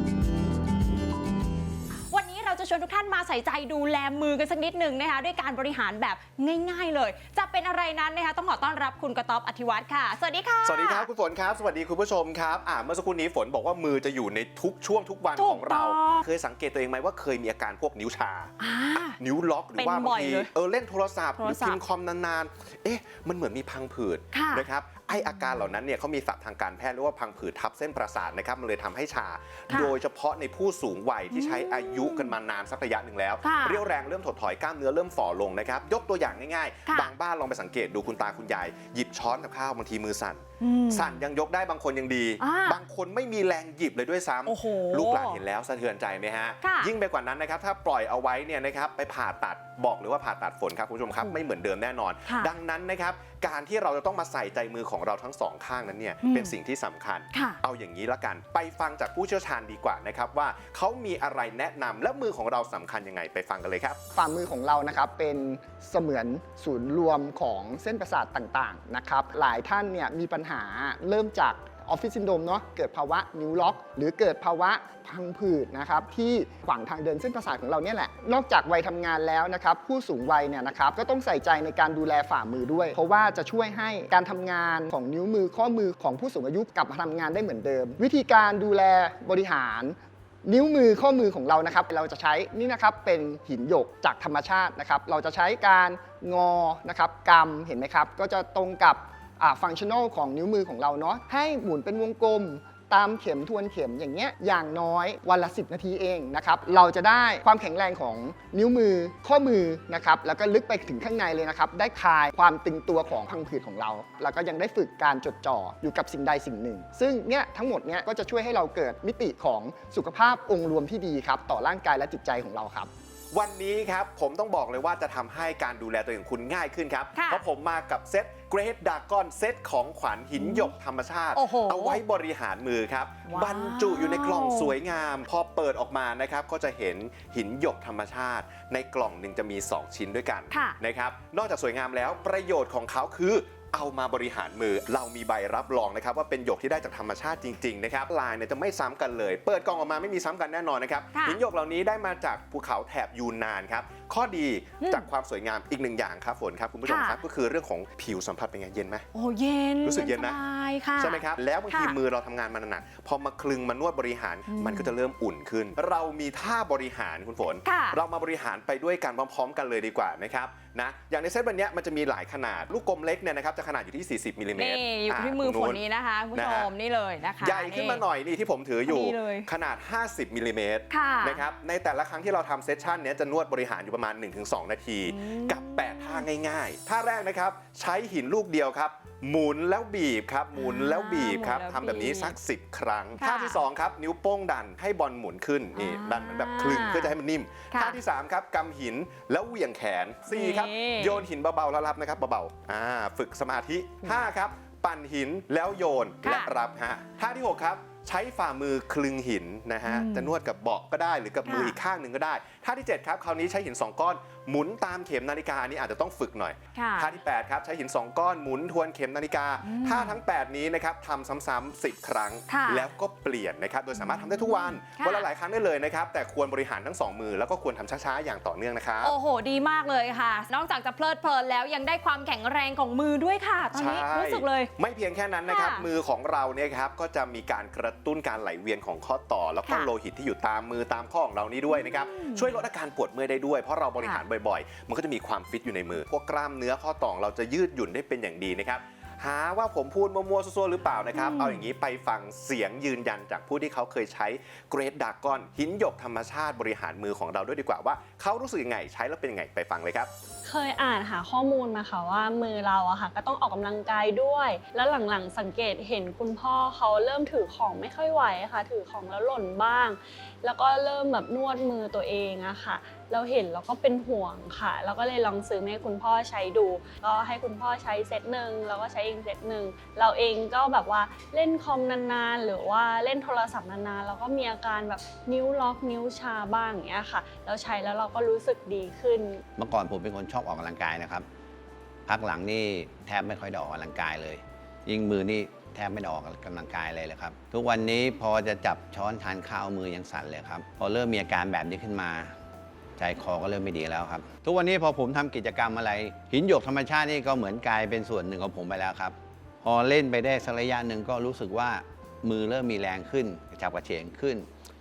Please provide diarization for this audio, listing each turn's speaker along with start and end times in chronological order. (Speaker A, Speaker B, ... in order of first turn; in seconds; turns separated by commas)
Speaker A: 2.1-11.1, Speaker B: 10.6-64.0, Speaker A: 15.4-16.2, Speaker A: 18.6-19.2, Speaker A: 19.7-20.5, Speaker A: 21.4-21.8, Speaker A: 24.3-24.7, Speaker A: 29.7-29.9, Speaker A: 31.3-32.3, Speaker A: 33.4-33.9, Speaker A: 36.9-37.1, Speaker A: 40.6-41.2, Speaker A: 42.4-42.8, Speaker A: 44.5-45.4, Speaker A: 46.6-46.9, Speaker A: 56.2-56.5, Speaker A: 57.3-57.6, Speaker C: 64.1-122.9, Speaker B: 123.3-159.1, Speaker A: 127.2-127.4, Speaker A: 130.4-130.7, Speaker A: 131.3-132.0, Speaker A: 133.3-134.8, Speaker A: 140.5-140.8, Speaker A: 151.1-151.4, Speaker A: 154.8-155.1, Speaker A: 156.9-157.2, Speaker A: 159.1-161.9, Speaker B: 159.8-160.4, Speaker B: 161.0-175.8, Speaker A: 164.5-164.9, Speaker A: 167.6-168.0, Speaker A: 174.6-178.0, Speaker B: 176.3-176.7, Speaker B: 177.4-229.1, Speaker A: 178.8-179.5, Speaker A: 180.9-181.4, Speaker A: 185.1-186.2, Speaker A: 190.5-192.3, Speaker A: 193.2-193.6, Speaker A: 195.7-197.2, Speaker A: 197.7-198.0, Speaker A: 200.3-201.2, Speaker A: 206.2-206.5, Speaker A: 209.9-210.3, Speaker A: 211.4-211.8, Speaker A: 216.8-217.1, Speaker A: 219.6-220.2, Speaker A: 222.5-222.9, Speaker A: 224.0-225.3, Speaker A: 229.0-234.7, Speaker B: 233.7-260.1, Speaker A: 235.5-235.8, Speaker A: 241.7-242.6, Speaker A: 251.1-251.7, Speaker D: 260.4-289.4, Speaker E: 289.6-291.2, Speaker E: 292.1-302.3, Speaker E: 303.0-314.5